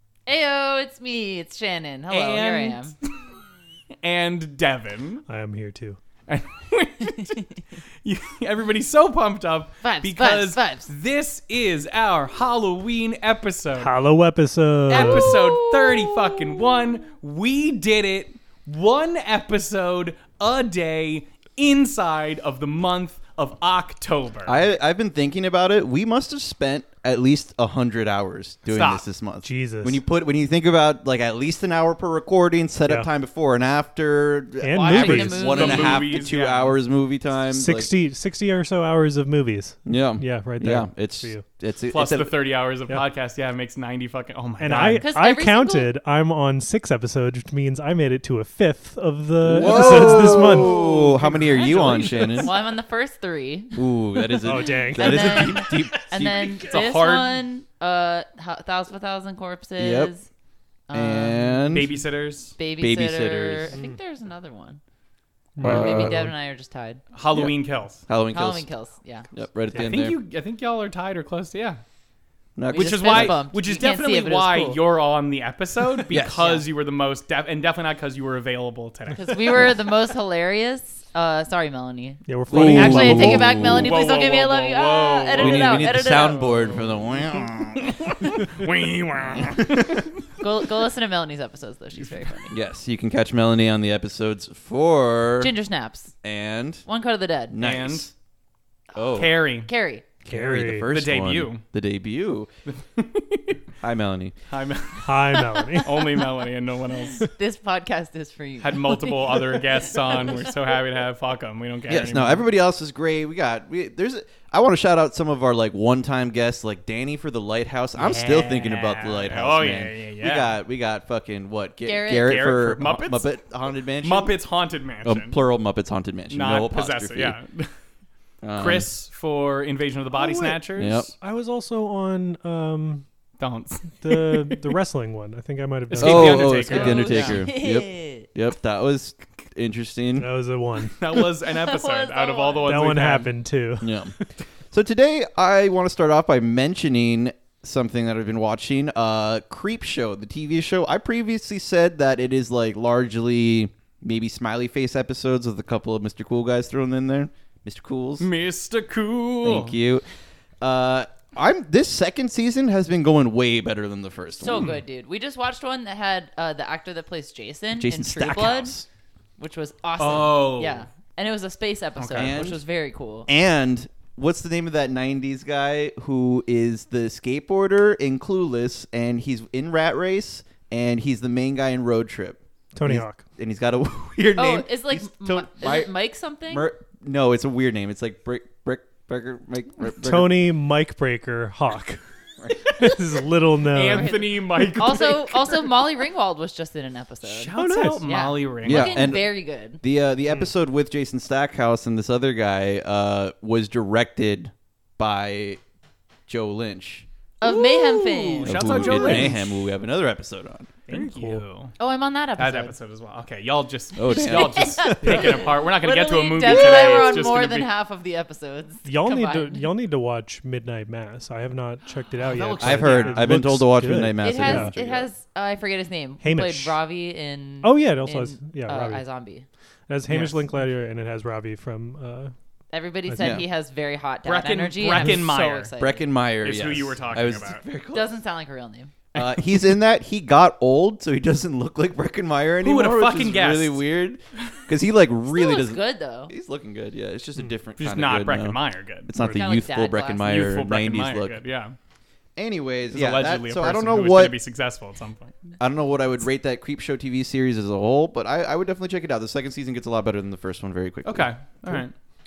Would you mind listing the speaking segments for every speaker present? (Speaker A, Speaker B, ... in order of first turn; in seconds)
Speaker A: 0.3-2.9, 9.8-10.9, 14.9-16.5, 34.8-36.1, 45.0-45.9, 51.6-53.8, 54.9-60.3, 60.9-61.7, 62.6-64.8, 65.6-67.0, 68.3-69.3, 72.7-74.8, 76.3-76.6, 79.1-86.5, 90.4-92.5, 95.4-96.1, 96.9-97.6, 99.6-100.1, 105.5-106.0, 107.2-110.5, 121.8-122.3, 136.7-138.3, 141.4-142.7, 164.4-168.8, 169.4-173.3, 184.4-186.7, 193.9-199.8, 207.4-209.2, 211.8-212.7, 214.1-219.7, 224.2-229.5, 232.7-236.0, 237.9-238.9, 245.3-246.3, 249.2-250.3
Speaker B: 2.1-3.2, 4.0-5.2, 6.3-13.9, 14.9-24.6, 28.7-29.1, 35.3-36.8, 41.9-45.1, 49.6-52.6, 56.5-57.4, 61.7-62.6, 67.1-68.0, 69.7-71.8, 72.7-79.7, 83.6-90.2, 97.6-98.1, 99.2-99.7, 100.9-101.6, 102.7-103.6, 104.5-107.3, 108.6-112.5, 118.0-120.6, 122.1-123.3, 124.0-125.4, 126.3-127.7, 128.6-131.1, 133.4-134.7, 135.9-137.4, 141.0-143.3, 158.2-159.8, 170.0-170.9, 172.0-172.4, 193.6-196.0, 197.2-199.2, 207.4-209.7, 210.9-211.8, 212.4-217.7, 222.2-223.4, 230.1-230.4, 234.2-235.7, 236.4-237.6, 242.6-243.8, 247.8-249.1, 250.2-251.8, 252.9-255.4, 261.1-261.9
Speaker C: 5.3-6.0, 13.8-15.5, 29.4-30.0, 34.6-35.7, 37.5-41.5, 44.6-50.8, 54.4-55.7, 65.6-66.3, 82.3-83.9, 100.3-100.9, 105.0-106.2, 130.1-130.6, 131.2-133.1, 134.0-137.3, 140.2-141.0, 142.7-144.2, 182.8-183.2, 190.0-192.0, 192.7-194.2, 197.5-198.1, 208.7-209.4, 210.9-211.4, 218.8-224.7, 226.2-226.8, 227.6-229.0, 229.9-232.3, 233.1-233.4, 249.2-249.5
Speaker D: 24.4-37.9, 39.9-42.3, 49.4-52.5, 53.8-56.8, 59.8-60.1, 60.9-62.0, 62.8-63.8, 65.6-66.3, 68.1-68.7, 69.3-70.2, 72.6-73.4, 76.1-76.4, 82.5-84.0, 85.4-88.2, 89.2-90.1, 92.5-95.5, 96.2-96.8, 97.5-98.1, 98.9-99.3, 100.2-102.5, 103.8-104.4, 111.9-124.3, 125.0-127.4, 128.4-128.9, 130.8-131.1, 136.0-140.3, 143.8-144.2, 144.7-158.3, 159.4-160.1, 160.6-164.7, 167.7-168.9, 172.2-172.6, 173.3-185.9, 186.5-190.5, 198.6-199.3, 199.8-205.6, 206.3-207.1, 208.4-210.7, 214.0-215.4, 216.4-217.3, 222.6-225.1, 233.2-233.4, 235.8-238.2, 239.2-251.4, 252.4-254.3, 255.6-261.8